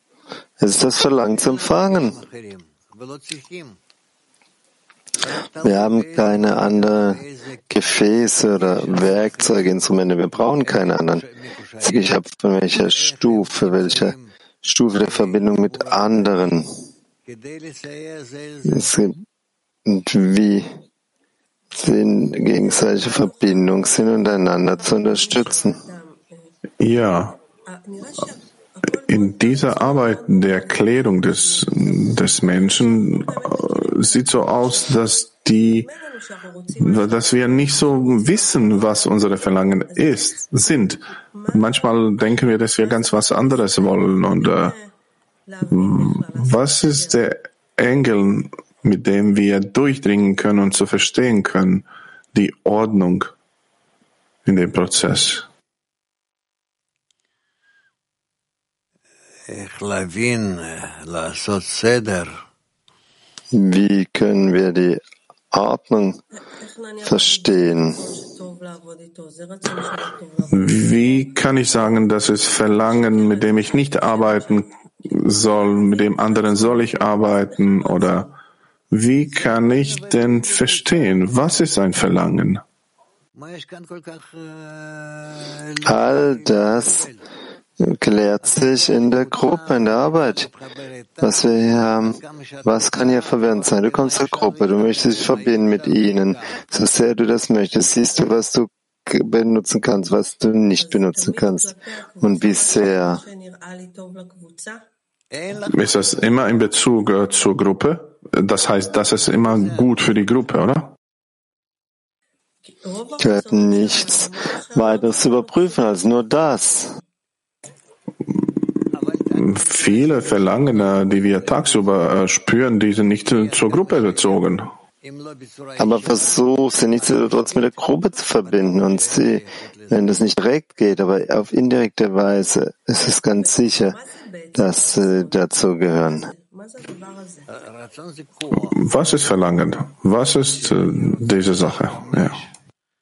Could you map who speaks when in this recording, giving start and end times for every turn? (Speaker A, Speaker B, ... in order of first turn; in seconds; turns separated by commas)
Speaker A: 0.6-2.2, Speaker A: 5.6-11.2, Speaker A: 11.8-16.7, Speaker A: 18.7-19.2, Speaker A: 19.9-20.7, Speaker A: 21.7-25.8, Speaker B: 26.8-27.4, Speaker B: 29.0-35.9, Speaker B: 36.8-44.8, Speaker B: 45.7-53.3, Speaker B: 54.5-55.5, Speaker A: 63.5-65.0, Speaker A: 65.5-66.2, Speaker A: 67.0-68.0, Speaker B: 70.5-78.3, Speaker B: 78.9-82.6, Speaker A: 85.9-87.1, Speaker A: 87.8-90.5, Speaker A: 91.2-103.2, Speaker B: 105.7-110.9, Speaker A: 113.2-116.9, Speaker B: 118.3-124.7, Speaker A: 125.8-134.0, Speaker A: 134.6-136.3, Speaker B: 138.5-142.4